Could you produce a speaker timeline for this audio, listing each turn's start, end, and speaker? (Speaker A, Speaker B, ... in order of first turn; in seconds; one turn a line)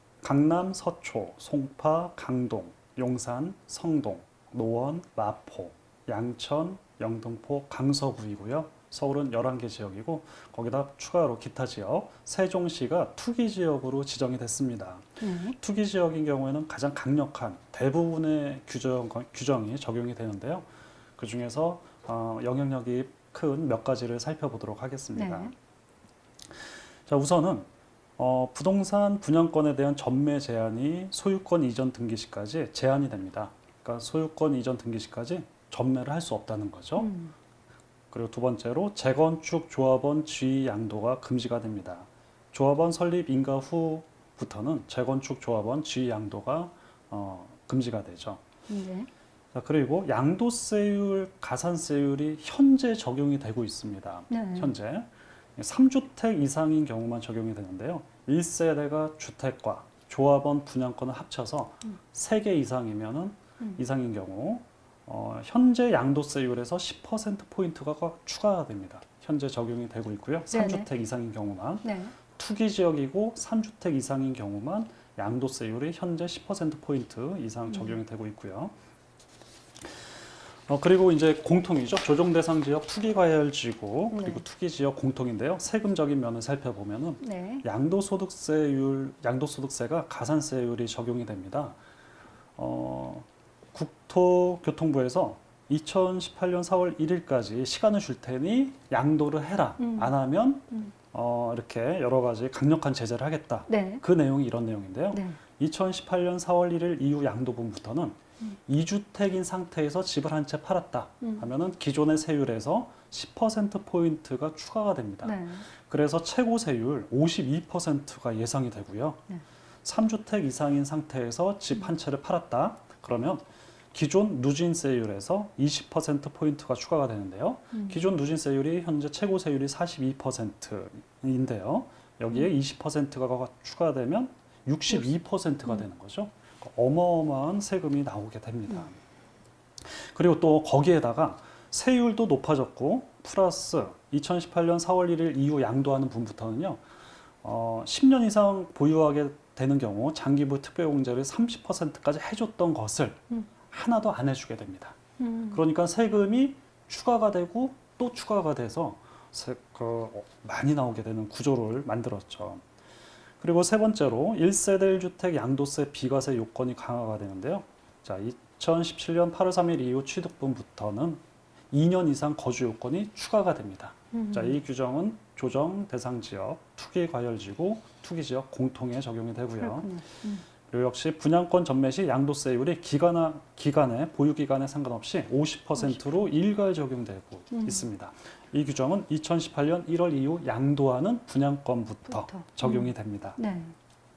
Speaker A: 0.2-25.5
Speaker B: 15.2-15.6
Speaker B: 25.1-25.5
Speaker A: 27.1-37.1
Speaker B: 37.0-37.3
Speaker A: 38.1-48.4
Speaker B: 48.7-49.1
Speaker A: 49.5-78.7
Speaker B: 54.3-54.7
Speaker B: 70.5-70.9
Speaker B: 71.8-72.1
Speaker B: 77.7-78.0
Speaker A: 80.7-91.8
Speaker B: 84.1-84.4
Speaker B: 87.2-87.7
Speaker A: 92.6-119.2
Speaker B: 99.8-100.1
Speaker B: 103.7-104.0
Speaker B: 105.1-105.4
Speaker B: 115.2-115.6
Speaker A: 119.8-139.0
Speaker B: 127.7-128.0
Speaker A: 139.8-146.8
Speaker A: 147.4-155.0
Speaker B: 155.2-155.6
Speaker A: 155.5-162.6
Speaker A: 163.4-179.9
Speaker B: 174.1-174.6
Speaker B: 179.6-180.4
Speaker A: 180.7-193.4
Speaker B: 185.8-186.2
Speaker B: 187.5-187.9
Speaker B: 192.1-193.8